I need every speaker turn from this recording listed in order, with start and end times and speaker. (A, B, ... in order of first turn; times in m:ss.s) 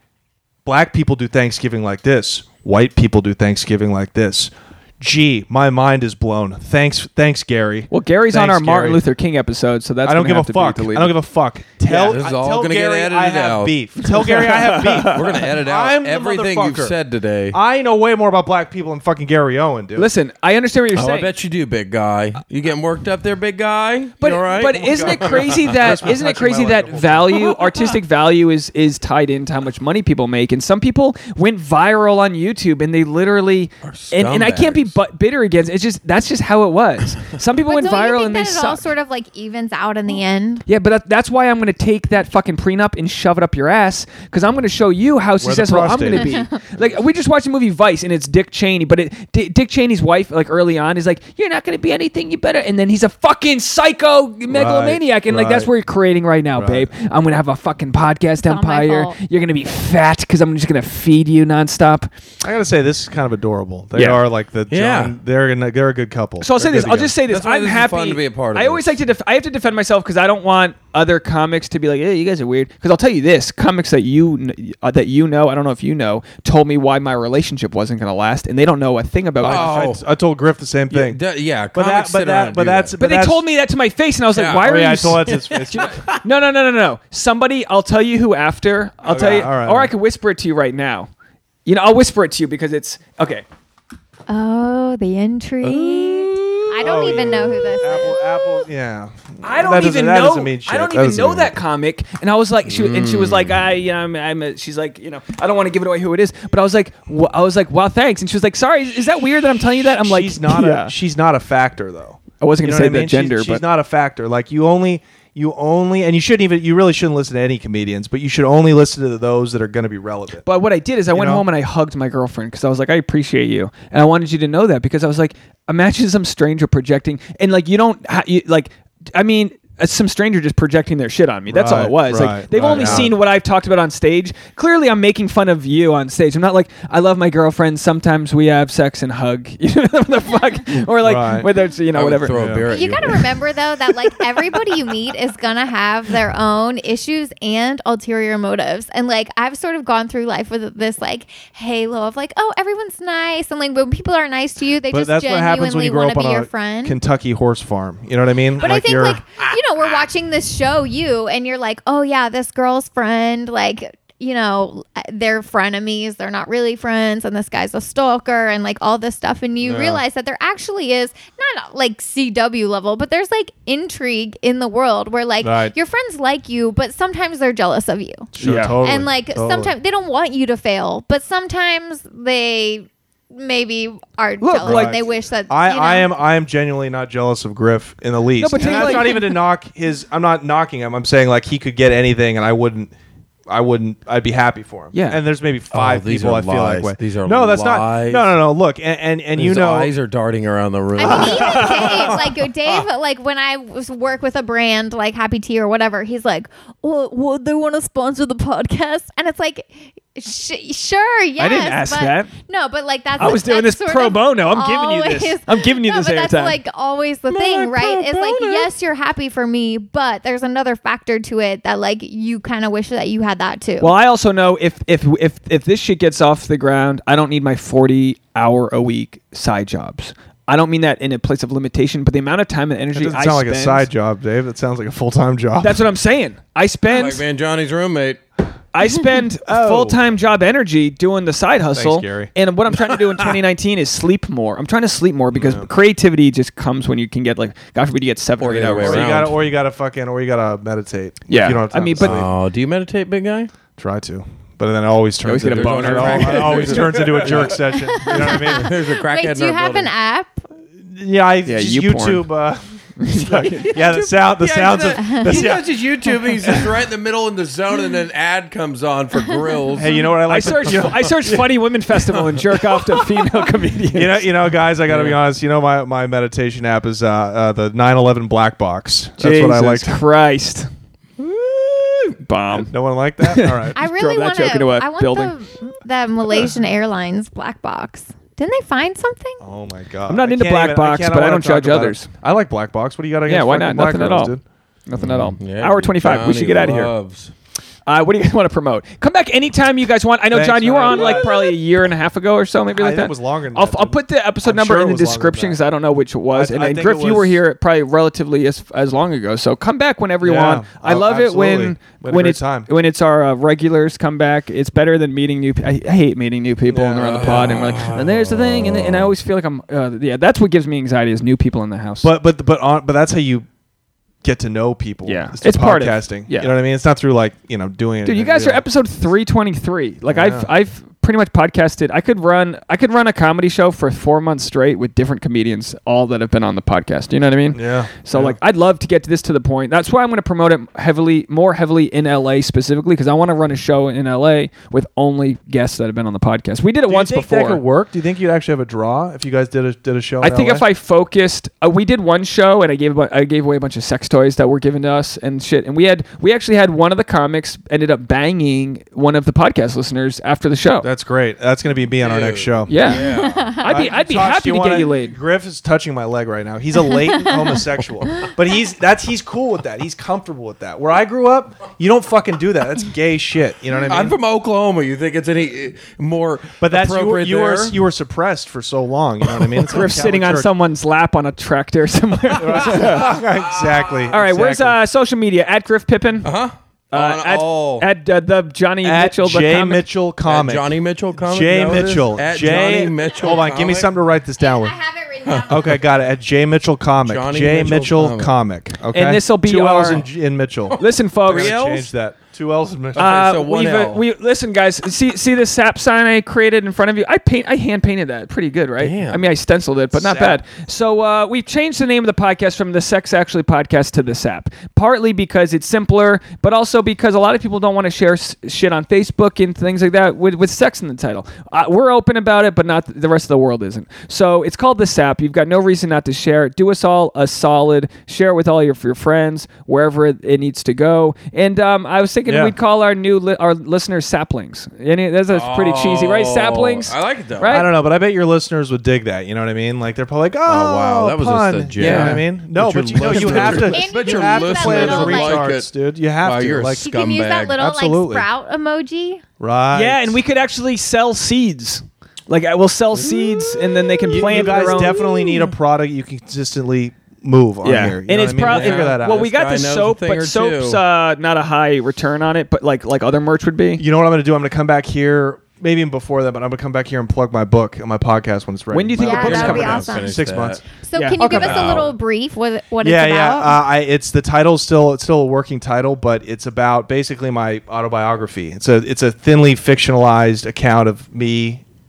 0:00.6-0:09.0 A
0:07.9-0:11.2 B
0:10.0-0:16.9 A
0:11.9-0:13.8 C
0:14.0-0:15.4 B
0:14.9-0:17.6 C
0:17.5-0:20.1 A
0:20.0-0:21.3 B
0:20.9-0:26.0 C
0:24.2-0:38.8 B
0:24.6-0:27.5 A
0:27.3-0:27.8 C
0:33.8-0:34.9 C
0:37.6-0:40.6 D
0:40.7-1:02.1 B
0:45.4-0:46.5 A
0:54.5-0:55.7 A
0:56.5-0:56.9 A
0:58.4-0:59.1 D
1:02.4-1:07.1 A
1:03.9-1:04.2 B
1:04.7-1:05.2 C
1:06.4-1:19.7 B
1:07.2-1:09.0 C
1:19.4-1:21.2 A
1:19.4-1:20.0 C
1:20.9-1:22.9 C
1:21.7-1:23.4 A
1:23.0-1:31.1 B
1:24.3-1:26.2 C
1:24.6-1:26.0 A
1:29.0-1:29.9 A
1:31.6-1:33.4 B
1:34.3-1:38.4 D
1:35.6-1:37.8 C
1:36.8-1:41.5 A
1:39.4-1:50.9 B
1:42.6-1:43.6 C
1:50.0-2:00.4 A
1:52.4-1:53.6 B
2:00.4-2:22.6 B
2:01.1-2:01.4 A
2:11.5-2:13.1 A
2:12.5-2:13.1 C
2:21.0-2:21.5 A
2:21.9-2:23.4 C
2:22.3-2:22.7 A
2:22.7-2:37.0 D
2:24.0-2:24.6 B
2:34.9-2:39.2 A
2:38.6-2:58.3 D
2:49.6-2:50.0 A
2:55.4-2:55.7 A
2:58.3-2:59.7 A
2:58.4-2:58.8 B
2:58.8-3:06.1 D
3:04.4-3:05.0 B
3:04.6-3:12.9 A
3:08.4-3:09.4 B
3:13.5-3:19.9 A
3:14.9-3:15.2 B
3:15.7-3:18.3 C
3:19.4-3:22.8 C
3:21.0-3:43.9 D
3:21.0-3:22.1 B
3:31.4-3:32.3 B
3:33.2-3:36.6 B
3:37.3-3:38.6 B
3:43.8-3:53.9 B
3:52.9-3:55.8 A
3:55.6-3:57.2 B
3:56.9-3:58.2 C
3:58.7-4:09.2 B
3:59.5-4:00.0 A
4:01.7-4:02.3 A
4:05.3-4:05.7 A
4:08.4-4:09.4 C
4:08.8-4:12.3 A
4:11.3-4:12.2 B
4:12.0-4:13.5 C
4:13.8-4:18.7 A
4:15.2-4:17.5 B
4:15.5-4:19.9 C
4:17.7-4:20.3 D
4:20.8-4:25.8 A
4:21.4-4:22.3 B
4:23.0-4:23.8 B
4:23.7-4:30.7 C
4:25.0-4:25.6 D
4:26.4-4:26.8 A
4:29.2-4:30.1 D
4:29.8-4:31.5 A
4:30.2-4:34.3 B
4:33.9-4:40.0 A
4:34.9-4:35.2 C
4:39.2-4:40.7 B
4:42.2-4:45.3 B
4:42.5-4:43.8 A
4:43.7-4:49.4 D
4:49.4-4:54.4 A
4:50.1-4:52.1 B
4:53.3-4:54.3 B
4:54.9-4:56.9 B
4:55.0-4:57.3 C
4:57.8-5:22.1 B
5:00.3-5:01.6 A
5:00.9-5:01.2 C
5:02.7-5:05.6 A
5:06.3-5:07.4 A
5:10.2-5:12.7 A
5:16.7-5:17.6 A
5:17.0-5:19.1 C
5:22.0-5:23.5 A
5:24.2-5:28.6 A
5:25.0-5:26.5 B
5:28.0-5:47.6 B
5:30.1-5:30.5 A
5:37.5-5:38.4 A
5:46.9-5:50.6 A
5:50.2-6:00.9 B
6:00.8-6:02.8 A
6:02.0-6:03.6 C
6:02.7-6:03.1 B
6:02.9-6:03.9 D
6:03.6-6:05.2 B
6:03.6-6:14.2 A
6:07.1-6:07.6 D
6:13.8-6:17.8 C
6:16.6-6:20.5 A
6:19.7-6:23.2 B
6:22.4-6:24.8 A
6:24.1-6:26.3 B
6:26.2-6:27.9 C
6:26.9-6:29.8 B
6:28.8-6:30.7 A
6:30.2-6:33.9 C
6:31.2-6:34.8 A
6:34.4-6:35.8 D
6:35.2-6:35.8 C
6:35.5-6:43.1 A
6:37.0-6:38.3 C
6:38.9-6:40.0 B
6:40.8-6:41.6 B
6:41.2-6:41.9 C
6:42.9-6:44.0 C
6:43.0-7:17.7 B
6:48.8-6:49.2 C
6:49.9-6:50.4 A
7:12.3-7:12.5 A
7:15.3-7:17.6 C
7:17.4-7:26.9 A
7:20.4-7:27.6 C
7:21.8-7:22.2 B
7:22.9-7:23.7 B
7:23.5-7:25.4 D
7:26.8-7:29.2 D
7:27.6-7:28.3 A
7:29.4-7:30.2 A
7:29.7-7:35.0 B
7:33.1-7:33.4 C
7:34.0-7:39.3 A
7:34.4-7:35.5 D
7:37.6-7:43.8 B
7:38.4-7:40.8 C
7:43.8-7:50.6 A
7:48.7-7:49.9 B
7:49.0-7:50.2 D
7:49.1-7:50.6 C
7:50.8-7:53.6 D
7:50.9-7:51.2 B
7:51.2-7:51.9 A
7:51.2-7:51.9 C
7:52.8-8:01.6 A